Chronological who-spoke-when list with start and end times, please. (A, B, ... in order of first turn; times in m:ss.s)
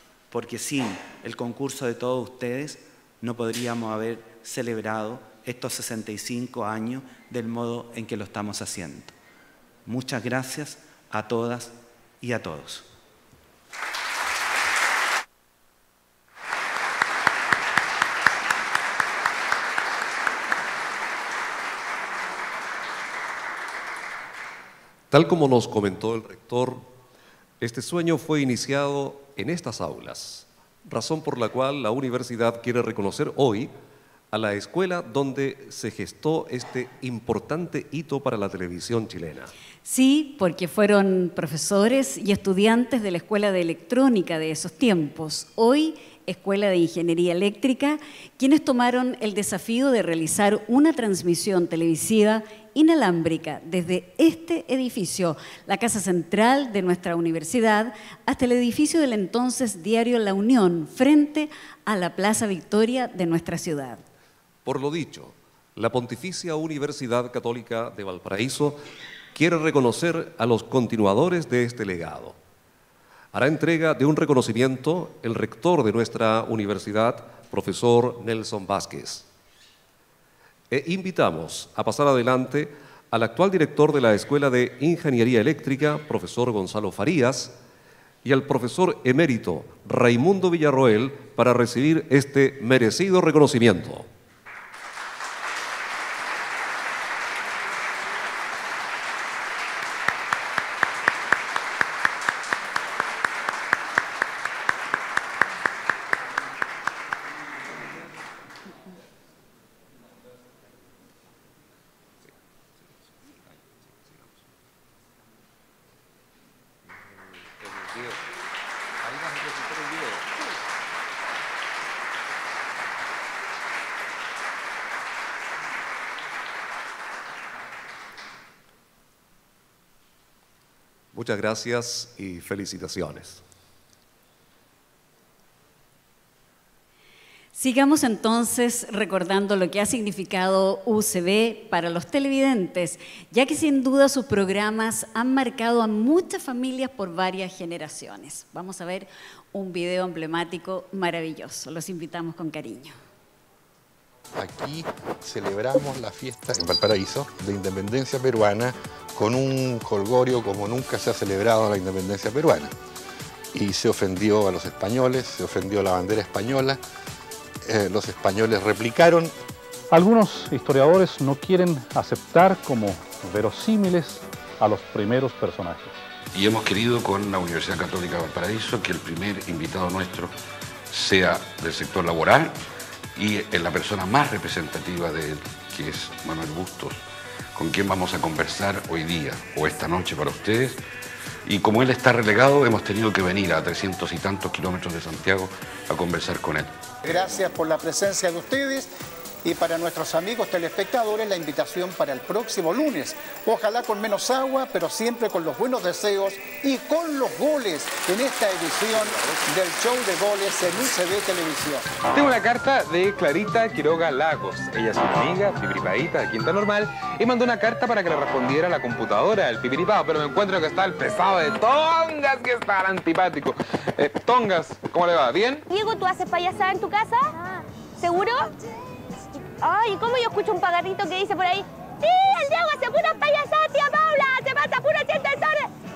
0:00.3-0:09.1 A
0:09.9-0:12.9 A
0:25.1-0:26.9 B
0:27.6-0:33.7 B
0:34.3-0:39.5 B
0:39.8-1:04.0 C
1:04.6-1:08.8 B
1:09.4-1:12.4 B
1:13.3-1:19.3 B
1:20.7-1:27.5 B
1:28.2-1:34.1 B
2:11.1-2:13.4 B
2:17.6-2:33.0 C
2:34.4-2:42.7 D
2:43.5-2:46.8 D
2:47.6-2:49.3 D
2:49.9-2:56.0 E
2:56.3-3:00.4 F
3:00.9-3:02.6 F
3:03.2-3:07.0 F
3:07.6-3:10.8 F
3:11.5-3:16.8 F
3:17.0-3:18.9 G
3:19.4-3:31.8 G
3:32.1-3:45.6 H
3:45.7-3:48.5 I
3:49.6-3:55.7 I